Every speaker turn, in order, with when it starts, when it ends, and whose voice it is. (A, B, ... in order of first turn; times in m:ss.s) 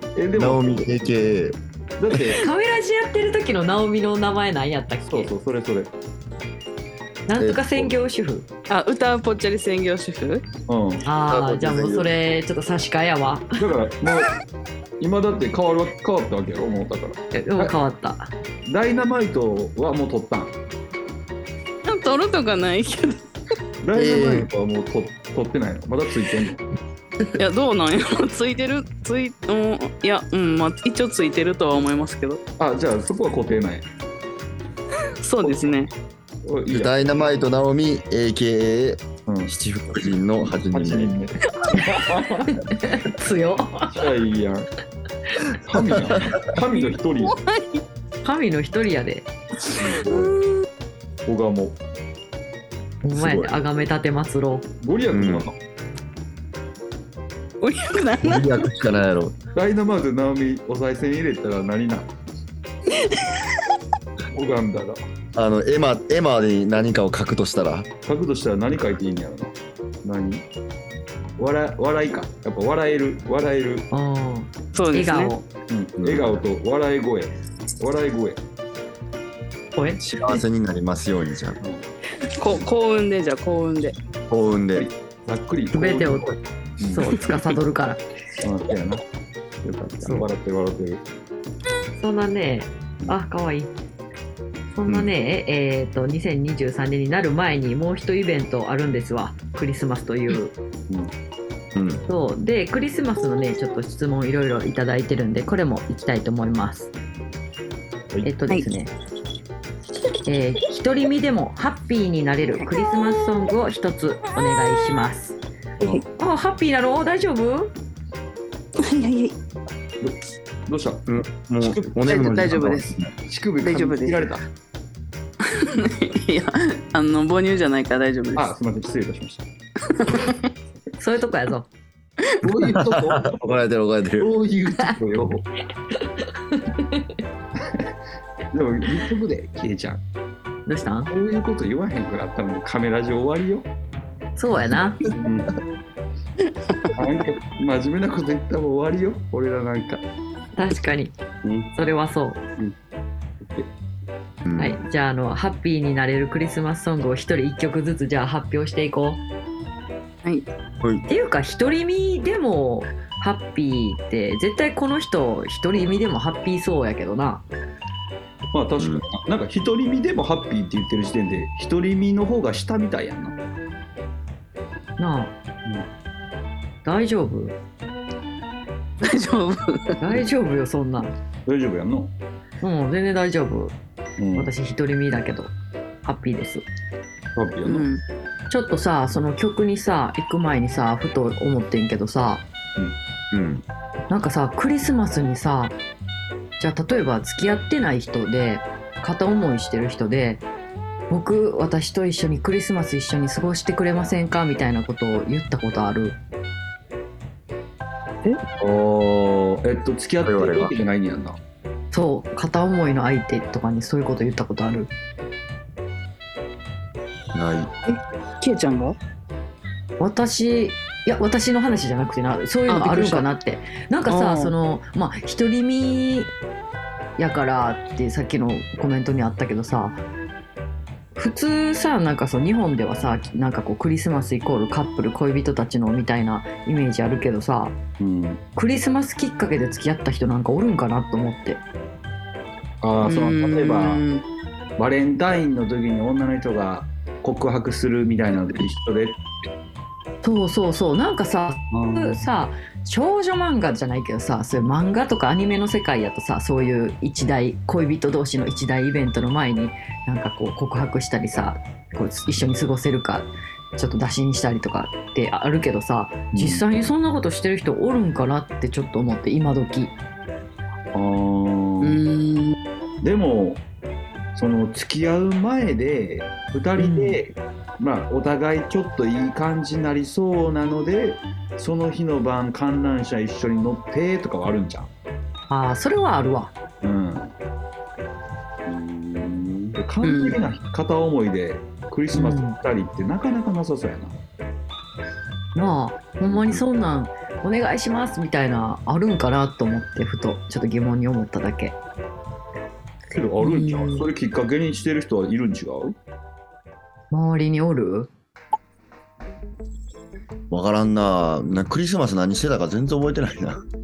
0:00.2-0:01.1 A
0:00.3-0:01.6 B
0:02.0-0:02.4 A
0:02.4-0:05.3 C
0:05.1-0:05.9 A
0:07.3-0:08.5 C
0:07.4-0:07.9 B
0:08.7-0:10.4 D
0:10.7-0:11.0 A
0:11.0-0:13.6 C
0:11.3-0:12.1 B
0:13.6-0:14.4 A
0:15.0-0:17.7 A
0:17.3-0:18.3 C
0:18.6-0:20.5 A
0:21.8-0:23.2 D
0:23.8-0:26.6 A
0:23.9-0:24.5 B
0:27.3-0:32.4 D
0:32.6-0:33.8 A
0:35.2-0:35.9 D
0:35.4-0:35.8 A
0:36.4-0:37.0 A
0:36.7-0:41.2 B
0:39.3-0:39.5 A
0:40.1-0:42.5 A
0:42.4-0:44.1 C
0:43.9-0:44.7 A
0:45.6-0:47.4 A
0:45.7-0:46.3 B
0:47.2-0:47.8 D
0:48.2-0:49.3 C
0:49.8-0:50.4 A
0:50.0-0:50.3 D
0:51.2-0:51.8 A
0:53.0-0:54.6 C
0:53.1-0:53.5 B
0:54.8-0:55.6 A
0:55.1-0:55.5 B
0:57.6-0:58.6 D
0:58.2-0:59.4 B
0:59.5-1:02.1 A
1:03.0-1:03.3 D
1:04.3-1:05.0 A
1:05.3-1:07.9 B
1:08.0-1:10.4 A
1:11.4-1:13.9 A
1:13.9-1:15.4 C
1:14.7-1:15.3 D
1:15.7-1:18.4 A
1:16.0-1:16.4 B
1:19.7-1:20.4 C
1:20.0-1:21.6 B
1:21.6-1:21.9 A
1:22.4-1:23.9 D
1:24.3-1:24.9 B
1:24.8-1:27.2 A
1:25.7-1:28.0 C
1:28.4-1:29.0 A
1:29.6-1:31.0 A
1:32.0-1:33.7 C
1:34.7-1:40.5 C
1:34.9-1:35.1 B
1:41.7-1:42.0 B
1:42.1-1:46.9 C
1:48.2-1:48.9 C
1:50.2-1:55.4 C
1:56.2-1:57.7 C
1:58.8-1:59.3 D
2:00.7-2:01.0 A
2:01.1-2:03.1 B
2:01.6-2:02.0 A
2:02.0-2:02.9 D
2:03.2-2:04.4 A
2:03.6-2:04.3 D
2:05.4-2:08.5 D
2:08.3-2:09.5 A
2:09.9-2:10.3 D
2:11.0-2:11.7 C
2:12.4-2:13.5 A
2:12.6-2:14.3 B
2:14.2-2:15.5 A
2:16.5-2:17.0 C
2:17.6-2:17.9 A
2:18.5-2:20.0 A
2:20.7-2:21.1 C
2:21.1-2:23.7 A
2:24.4-2:25.1 C
2:25.1-2:25.6 A
2:26.9-2:30.0 A
2:30.6-2:31.1 C
2:31.4-2:31.7 A
2:31.7-2:32.4 C
2:33.4-2:33.7 A
2:34.4-2:34.8 B
2:34.6-2:39.2 C
2:41.1-2:47.4 C
2:48.5-2:53.4 A
2:48.8-2:49.0 B
2:55.0-2:55.3 C
2:56.8-2:57.6 C
2:59.0-3:00.0 D
3:00.0-3:01.1 C
3:01.4-3:02.1 A
3:02.6-3:03.8 C
3:04.2-3:04.5 A
3:04.4-3:05.5 C
3:06.0-3:06.6 C
3:07.3-3:07.9 A
3:07.6-3:08.0 D
3:08.5-3:12.4 C
3:13.3-3:13.6 B
3:14.1-3:15.8 C
3:16.6-3:20.4 C
3:21.1-3:26.2 C
3:28.6-3:31.4 A
3:30.2-3:30.7 B
3:31.9-3:34.9 C
3:37.3-3:37.7 B
3:37.8-3:39.0 D
3:40.0-3:46.3 C
3:42.7-3:43.2 D
3:44.1-3:44.5 D
3:47.2-3:50.0 C
3:51.2-3:57.8 C
3:58.0-3:58.4 A
3:58.6-4:01.6 C
4:02.8-4:04.0 A
4:03.0-4:04.2 D
4:04.8-4:09.2 A
4:10.2-4:29.9 C
4:11.7-4:12.2 A
4:26.3-4:26.6 A
4:30.9-4:32.0 A
4:31.8-4:32.6 D
4:33.0-4:33.6 A
4:34.3-4:44.9 A
4:36.8-4:37.2 C
4:45.5-4:46.5 C
4:46.8-4:47.3 A
4:48.6-4:54.2 A
4:50.0-4:50.4 D
4:52.1-4:52.6 C
4:55.5-5:01.8 C
5:03.1-5:06.0 A
5:03.4-5:04.0 D
5:07.1-5:08.1 C
5:10.5-5:13.6 B